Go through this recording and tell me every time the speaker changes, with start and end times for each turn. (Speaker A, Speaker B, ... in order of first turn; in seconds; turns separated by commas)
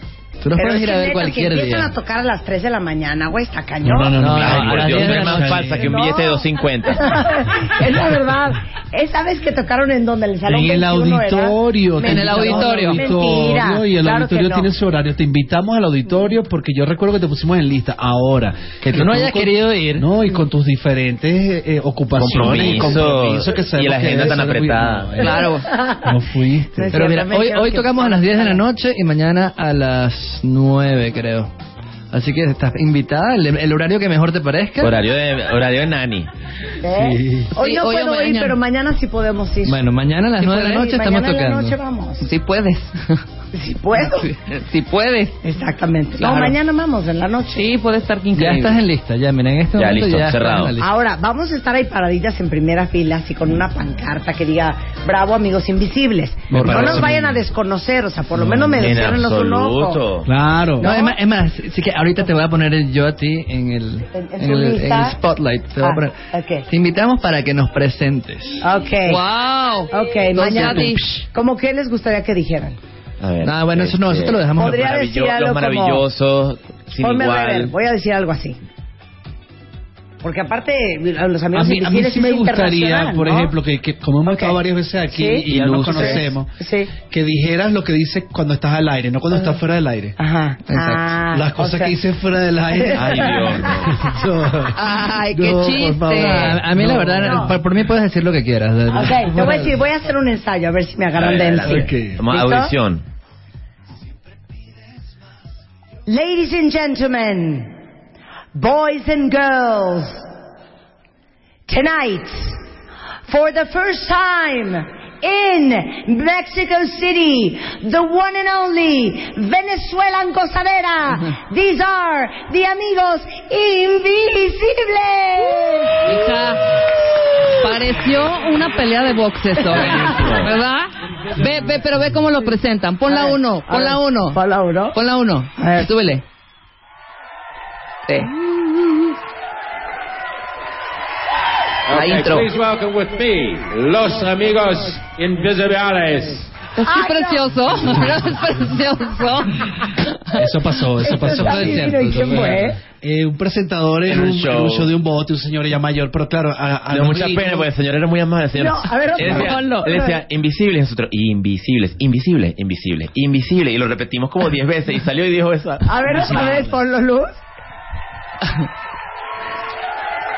Speaker A: 0.4-1.9, Speaker B: 0.5-4.2, Speaker C: 3.8-5.9, Speaker A: 4.2-5.7, Speaker D: 4.2-7.4, Speaker B: 5.8-6.5, Speaker B: 7.0-14.7, Speaker C: 10.4-25.4, Speaker E: 12.0-13.1, Speaker A: 18.9-20.1, Speaker D: 22.2-25.1, Speaker E: 25.2-25.7, Speaker C: 26.0-26.9, Speaker B: 26.8-28.6, Speaker A: 26.9-31.5, Speaker A: 32.1-35.0, Speaker D: 34.8-36.3, Speaker B: 36.8-39.9, Speaker E: 37.5-38.6, Speaker A: 39.6-41.8, Speaker E: 40.4-40.9, Speaker B: 40.4-42.2, Speaker E: 42.2-43.2, Speaker B: 43.5-44.3, Speaker E: 44.0-45.4, Speaker B: 45.4-47.7, Speaker E: 46.2-46.6, Speaker E: 47.5-48.8, Speaker A: 48.3-50.9, Speaker D: 49.8-50.8, Speaker B: 50.8-60.0, Speaker C: 56.5-57.4, Speaker A: 56.5-57.1, Speaker C: 58.4-58.8, Speaker D: 58.7-60.3, Speaker C: 60.3-60.9, Speaker A: 60.8-66.2, Speaker B: 60.8-61.1, Speaker B: 64.1-65.2, Speaker B: 65.8-66.7, Speaker A: 66.7-68.6, Speaker B: 68.6-69.3, Speaker E: 69.1-71.2, Speaker B: 69.9-72.8, Speaker A: 70.4-70.9, Speaker D: 73.2-77.7, Speaker A: 73.4-74.8, Speaker B: 74.6-76.0, Speaker B: 77.0-78.6, Speaker B: 80.2-83.5, Speaker C: 81.5-90.2, Speaker B: 84.3-84.6, Speaker B: 85.1-86.9, Speaker D: 85.5-86.3, Speaker B: 90.2-92.0, Speaker A: 90.7-91.2, Speaker C: 91.3-94.8, Speaker B: 92.7-93.9, Speaker D: 92.9-93.9, Speaker E: 94.8-96.6, Speaker C: 95.3-97.5, Speaker A: 96.1-99.6, Speaker B: 97.2-97.6, Speaker B: 98.9-102.7, Speaker D: 101.2-103.0, Speaker C: 101.7-102.2, Speaker B: 106.1-107.8, Speaker B: 108.5-110.2, Speaker B: 111.7-112.6, Speaker B: 113.3-126.1, Speaker E: 126.0-126.8, Speaker E: 127.6-134.4, Speaker D: 129.7-130.5, Speaker B: 133.1-135.0, Speaker E: 134.9-136.2, Speaker B: 135.6-135.9, Speaker E: 138.1-138.3, Speaker F: 141.9-146.5, Speaker E: 141.9-142.5, Speaker E: 146.8-149.8, Speaker B: 146.8-147.5, Speaker C: 150.3-152.4, Speaker B: 151.0-152.8, Speaker A: 151.3-152.7, Speaker C: 152.9-157.7, Speaker D: 154.1-154.9, Speaker D: 156.9-166.7, Speaker B: 158.6-160.2, Speaker E: 159.2-159.9, Speaker B: 165.8-167.3